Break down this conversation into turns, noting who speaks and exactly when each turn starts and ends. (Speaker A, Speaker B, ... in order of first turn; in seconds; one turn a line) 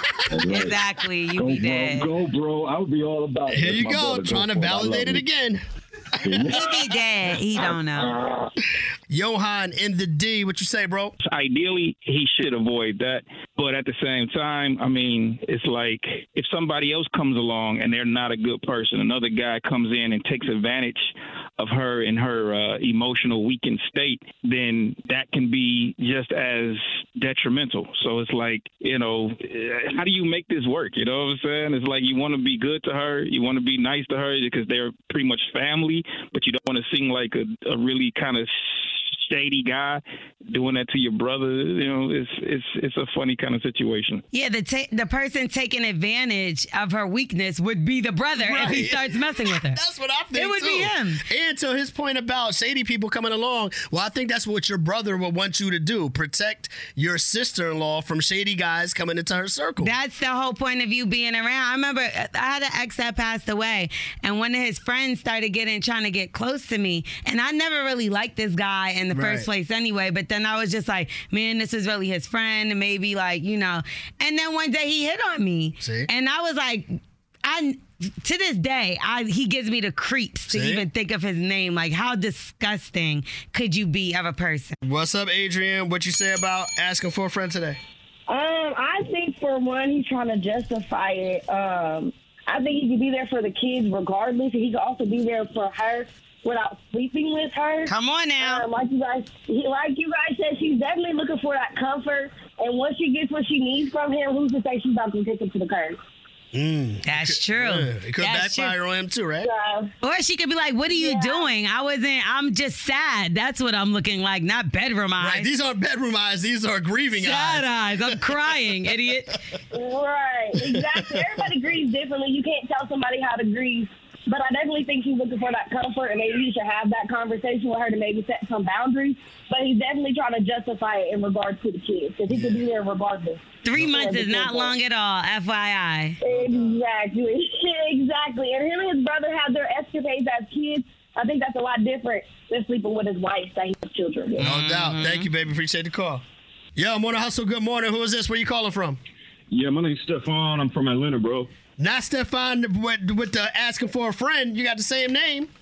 Speaker A: 0.3-0.8
Speaker B: 0.5-2.1
Speaker A: 1.4-5.2
Speaker C: 3.5-5.6
Speaker A: 6.2-6.7
Speaker B: 6.5-8.2
Speaker A: 7.9-8.4
Speaker C: 9.1-11.1
Speaker D: 11.2-38.5
Speaker D: 39.2-44.2
Speaker B: 44.3-49.8
Speaker C: 48.4-60.0
Speaker B: 50.3-51.2
Speaker B: 59.8-76.9
Speaker C: 69.1-69.5
Speaker C: 75.8-76.1
Speaker B: 77.4-84.7
Speaker C: 80.5-80.8
Speaker C: 84.8-87.8
Speaker E: 88.3-106.0
Speaker B: 97.8-98.7
Speaker C: 106.5-109.5
Speaker B: 107.0-108.8
Speaker E: 109.4-109.9
Speaker B: 110.0-115.5
Speaker E: 110.9-111.5
Speaker C: 115.2-118.6
Speaker B: 117.1-119.3
Speaker E: 119.7-134.7
Speaker C: 120.6-121.3
Speaker C: 132.3-132.6
Speaker B: 133.6-136.2
Speaker E: 136.2-144.4
Speaker B: 144.4-145.3
Speaker C: 144.4-146.2
Speaker C: 146.8-149.0
Speaker F: 149.5-151.5
Speaker C: 151.8-155.5